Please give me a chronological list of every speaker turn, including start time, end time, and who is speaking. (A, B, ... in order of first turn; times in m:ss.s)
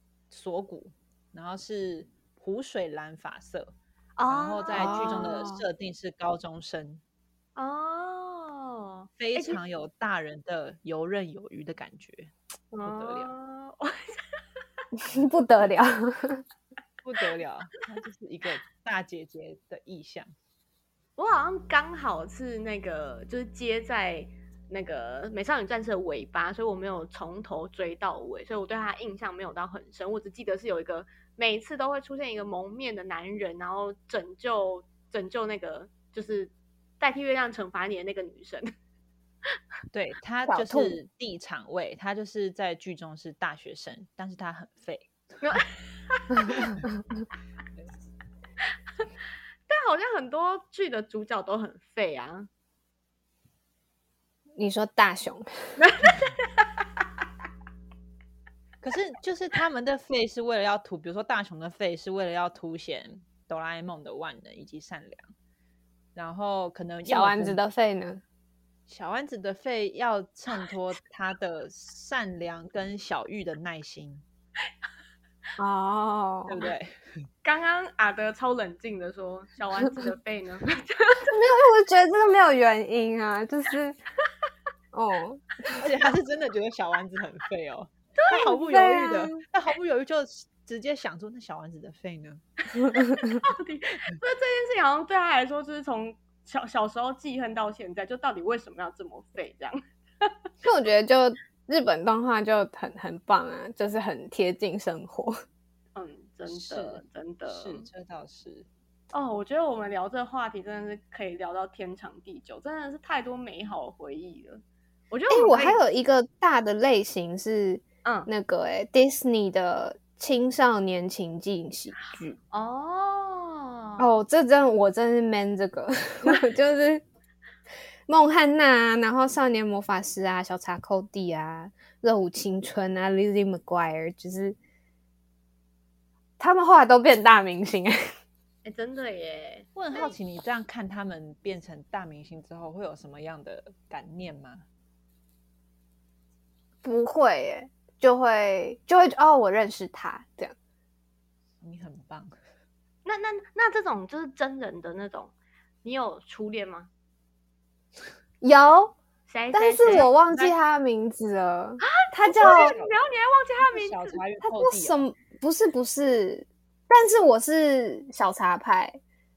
0:00.3-0:03.7 A
0:04.2-0:05.3 B
0:04.3-0:07.0 A
0:04.7-0:05.6 C
0:07.6-0:09.6 B
0:09.2-0:12.3 A
0:12.7-0:14.4 B
0:12.8-0:13.3 A
0:15.0-0:16.4 C
0:17.0-0:20.3 A
0:21.2-0:38.7 B
0:39.9-0:45.1 A
0:40.5-0:41.0 C
0:45.4-0:46.8 B
0:49.7-0:52.5 B
0:54.6-0:55.5 C
0:55.8-0:56.7 B
0:58.8-1:05.3 A
1:06.1-1:07.6 A
1:07.0-1:08.2 C
1:08.9-1:14.2 A
1:15.6-1:16.6 C
1:16.5-1:16.9 A
1:17.4-1:21.4 B
1:21.3-1:24.0 C
1:24.9-1:25.4 C
1:25.7-1:32.4 A
1:28.2-1:28.9 B
1:28.6-1:29.4 C
1:32.7-1:40.3 B
1:32.9-1:33.4 C
1:40.6-1:45.4 C
1:45.9-1:47.9 B
1:46.5-1:48.7 A
1:49.1-1:55.8 B
1:55.3-2:02.4 C
2:02.5-2:04.1 B
2:04.0-2:07.0 C
2:08.1-2:14.6 C
2:16.4-2:18.0 C
2:18.6-2:20.1 B
2:19.8-2:24.6 A
2:26.8-2:30.5 C
2:31.6-2:32.3 A
2:33.0-2:35.3 B
2:35.8-2:36.9 B
2:38.4-2:38.9 C
2:39.3-2:40.1 B
2:39.5-2:42.7 C
2:39.8-2:40.6 A
2:41.8-2:44.2 B
2:42.4-2:43.0 A
2:43.7-2:45.0 A
2:44.4-2:49.0 C